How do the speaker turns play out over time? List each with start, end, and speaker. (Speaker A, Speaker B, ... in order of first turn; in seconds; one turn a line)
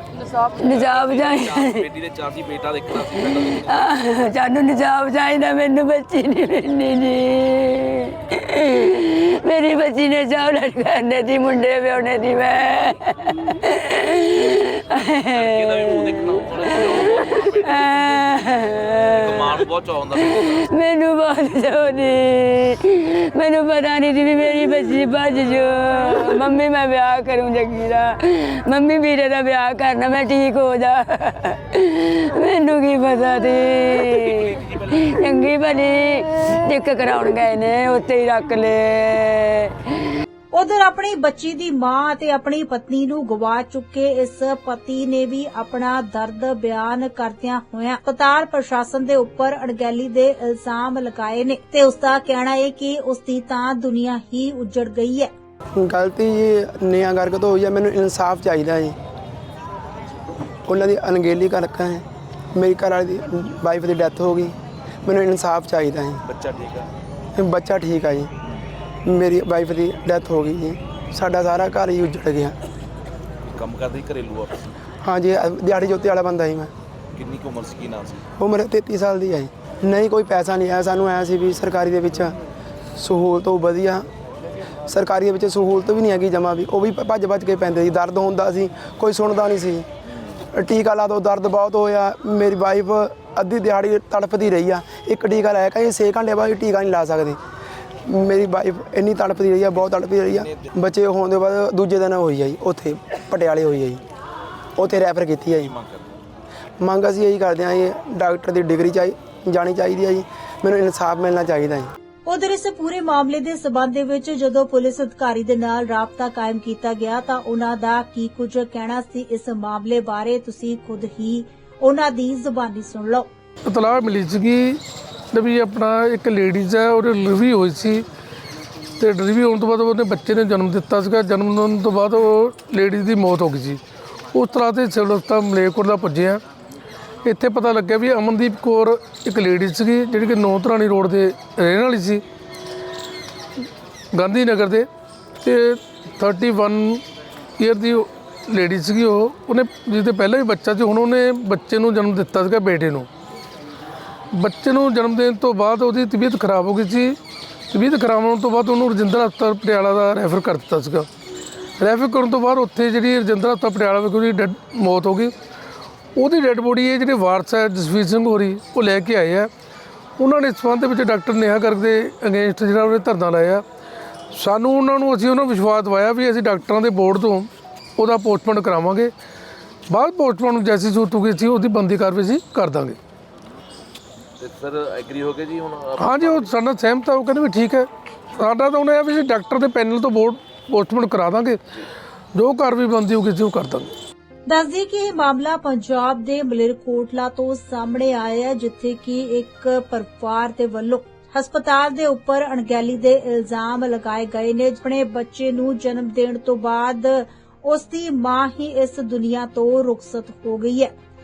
Speaker A: 0.1-1.9
Speaker B: 0.3-3.8
Speaker A: 3.0-19.6
Speaker B: 14.9-18.4
Speaker B: 19.1-20.7
Speaker A: 20.2-39.7
Speaker B: 34.0-35.2
Speaker C: 40.5-55.3
Speaker D: 55.7-59.0
Speaker D: 60.6-66.2
Speaker B: 66.2-66.9
Speaker D: 67.3-68.3
Speaker D: 69.0-72.6
Speaker B: 73.5-74.7
Speaker D: 75.0-76.7
Speaker B: 77.1-78.3
Speaker D: 78.4-82.3
Speaker D: 83.0-84.1
Speaker D: 84.8-89.9
Speaker D: 90.5-97.4
Speaker D: 98.0-104.0
Speaker B: 99.8-100.8
Speaker D: 104.8-105.7
Speaker B: 105.6-106.1
Speaker D: 106.8-111.9
Speaker C: 112.2-123.3
Speaker E: 123.7-124.8
Speaker E: 125.3-128.1
Speaker E: 129.0-133.8
Speaker E: 134.3-136.4
Speaker E: 137.2-142.2
Speaker E: 144.1-144.9
Speaker E: 145.4-147.0
Speaker E: 147.6-153.1
Speaker E: 154.3-157.2
Speaker E: 157.7-161.1
Speaker E: 161.8-165.3
Speaker E: 166.2-169.5
Speaker E: 170.2-173.6
Speaker E: 174.3-179.1
Speaker E: 179.9-183.0
Speaker B: 184.4-186.5
Speaker E: 186.0-191.6
Speaker E: 192.3-193.9
Speaker C: 194.5-210.9